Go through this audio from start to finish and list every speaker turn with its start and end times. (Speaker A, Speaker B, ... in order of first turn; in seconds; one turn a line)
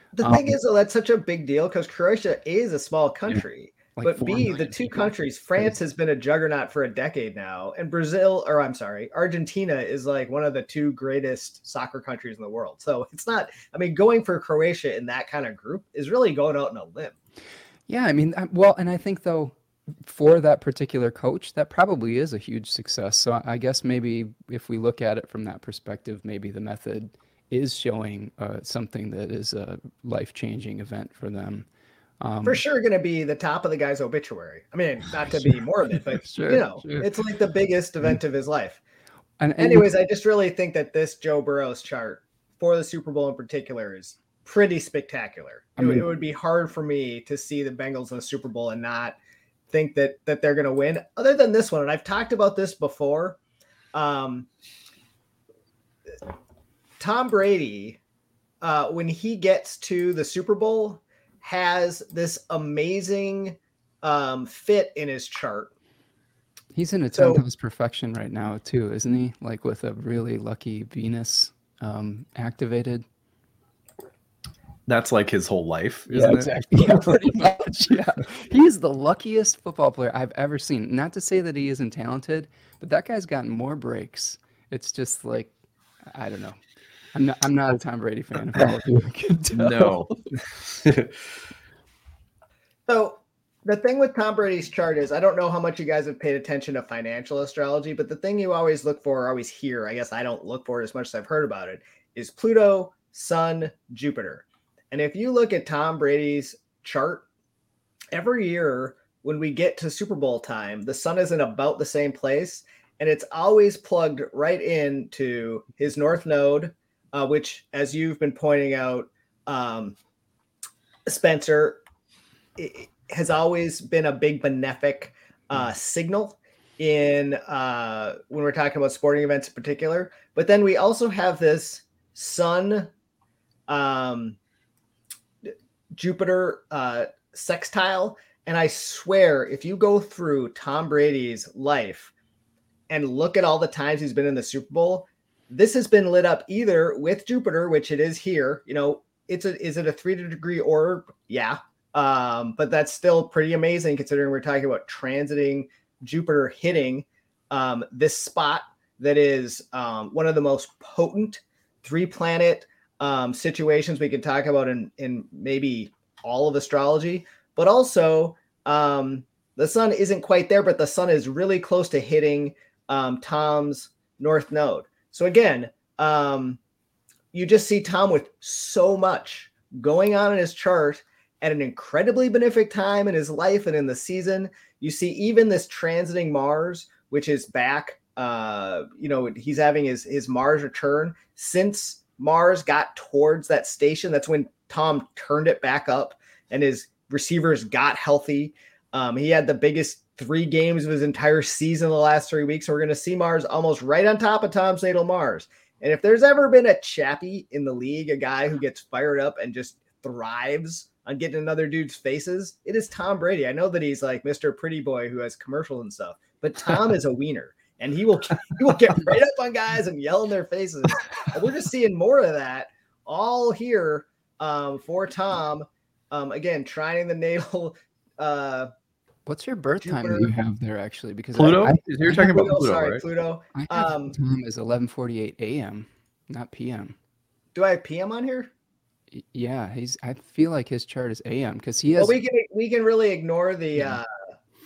Speaker A: 0.2-17.1
Speaker B: 0.2-0.6
Speaker B: 4.0-5.7
Speaker B: 17.9-31.7
Speaker B: 32.2-32.6
Speaker A: 32.5-38.8
Speaker B: 36.1-37.1
Speaker B: 39.4-39.9
Speaker A: 39.6-49.2
Speaker B: 45.8-46.1
Speaker A: 49.7-53.4
Speaker A: 53.9-54.5
Speaker A: 57.0-58.0
Speaker A: 58.6-65.7
Speaker B: 66.7-73.0
Speaker A: 67.1-67.4
Speaker C: 74.9-77.2
Speaker B: 76.1-85.5
Speaker B: 86.1-86.6
Speaker B: 87.1-90.1
Speaker C: 89.5-91.2
Speaker A: 92.9-107.3
Speaker A: 108.1-120.0
Speaker A: 121.1-121.8
Speaker A: 122.6-132.9
Speaker A: 133.7-134.4
Speaker A: 135.4-142.1
Speaker A: 142.9-176.6
Speaker A: 177.3-228.7
Speaker B: 229.3-232.5
Speaker A: 229.8-230.3
Speaker C: 231.3-233.0
Speaker A: 232.1-234.1
Speaker B: 233.6-237.0
Speaker A: 237.6-238.5
Speaker B: 239.1-242.2
Speaker A: 242.0-244.1